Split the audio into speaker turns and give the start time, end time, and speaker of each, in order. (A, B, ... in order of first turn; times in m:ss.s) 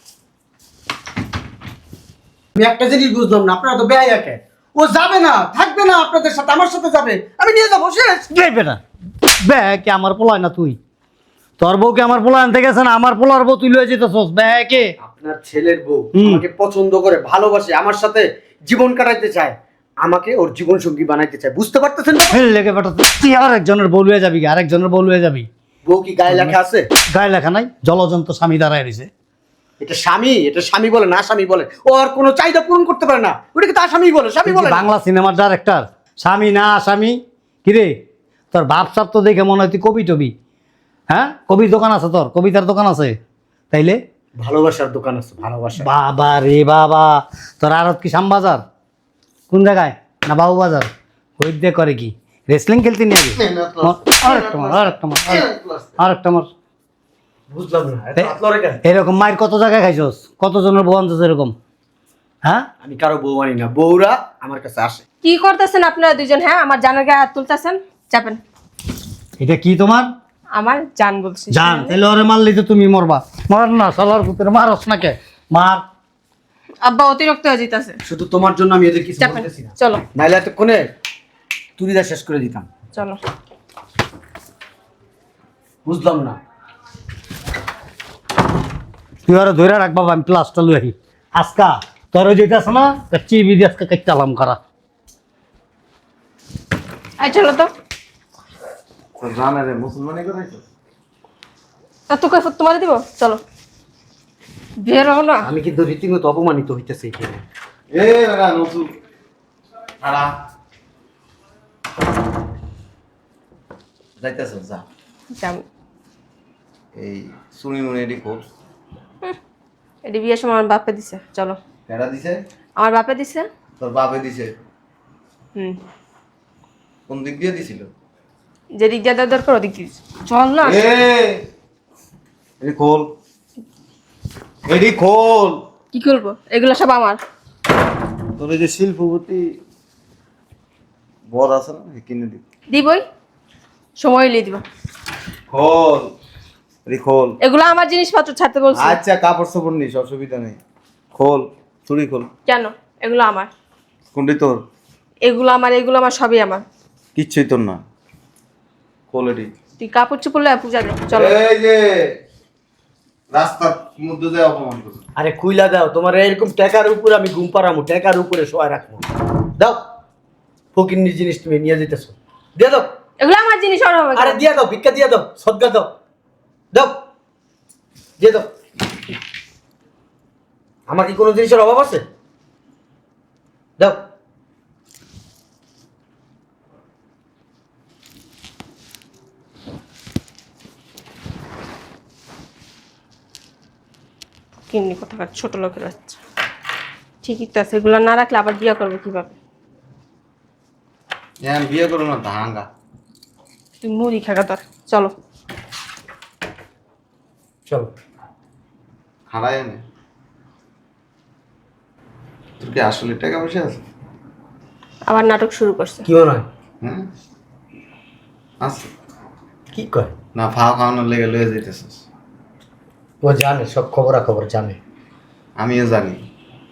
0:02.6-0:08.3 A
0:08.3-0:08.8 B
0:09.4-0:10.8 B
0:11.6-0:14.9 B
0:15.0-0:22.4 A
0:16.2-0:16.4 B
0:22.3-0:25.5 B
0:25.8-0:26.9 A
0:26.3-0:26.6 B
0:27.1-0:29.1 B
0:29.8-0:34.9 A
0:34.5-0:37.9 B
0:38.5-0:40.3 B
0:41.1-0:43.2 B
0:43.7-0:44.0 B
0:44.4-0:45.9 A
0:45.8-0:48.6 B
0:49.5-0:55.4 B
0:53.4-0:56.0 C
0:56.0-0:56.5 B
0:57.5-0:58.8 A
0:58.8-1:01.5 B
1:02.8-1:05.0 A
1:05.2-1:08.4 D
1:09.4-1:10.1 B
1:10.6-1:12.0 D
1:11.5-1:15.8 B
1:16.8-1:18.0 D
1:18.0-1:20.9 A
1:19.2-1:20.0 D
1:21.8-1:22.7 A
1:22.9-1:23.2 D
1:25.8-1:26.4 A
1:29.3-1:34.6 B
1:37.2-1:37.7 D
1:39.2-1:40.6 C
1:42.1-1:43.4 D
1:44.8-1:45.5 D
1:45.4-1:47.4 A
1:47.9-1:48.9 C
1:50.0-1:50.4 C
1:54.2-1:54.8 C
1:55.4-1:55.6 D
1:57.0-1:58.5 C
2:00.0-2:01.6 D
2:01.9-2:02.4 C
2:02.8-2:03.5 D
2:03.8-2:04.5 C
2:07.1-2:07.9 C
2:08.8-2:10.9 D
2:10.6-2:11.4 C
2:12.6-2:13.1 C
2:14.7-2:15.6 C
2:15.9-2:17.2 D
2:18.4-2:19.6 C
2:21.3-2:22.4 C
2:22.7-2:23.0 D
2:24.0-2:24.6 D
2:25.5-2:26.1 C
2:26.9-2:27.4 C
2:27.4-2:29.0 D
2:28.7-2:30.6 C
2:31.1-2:32.3 C
2:32.5-2:33.5 D
2:34.1-2:34.6 C
2:35.2-2:36.6 D
2:37.2-2:37.8 C
2:39.1-2:39.5 C
2:39.8-2:41.4 D
2:41.1-2:42.2 C
2:43.3-2:45.0 C
2:45.2-2:49.0 A
2:49.6-2:49.8 A
2:50.7-2:52.9 A
2:53.2-2:54.4 D
2:54.2-2:55.9 A
2:56.7-2:57.0 A
2:58.2-2:58.5 A
3:00.9-3:02.0 A
3:03.8-3:04.0 A
3:14.7-3:16.2 D
3:17.2-3:19.4 D
3:21.4-3:22.7 C
3:23.8-3:25.1 D
3:27.7-3:27.9 A
3:29.3-3:29.8 C
3:32.6-3:33.8 C
3:35.1-3:36.1 D
3:36.1-3:36.5 A
3:38.6-3:38.9 C
3:39.7-3:40.1 A
3:40.4-3:42.0 C
3:43.2-3:44.8 A
3:45.6-3:46.2 C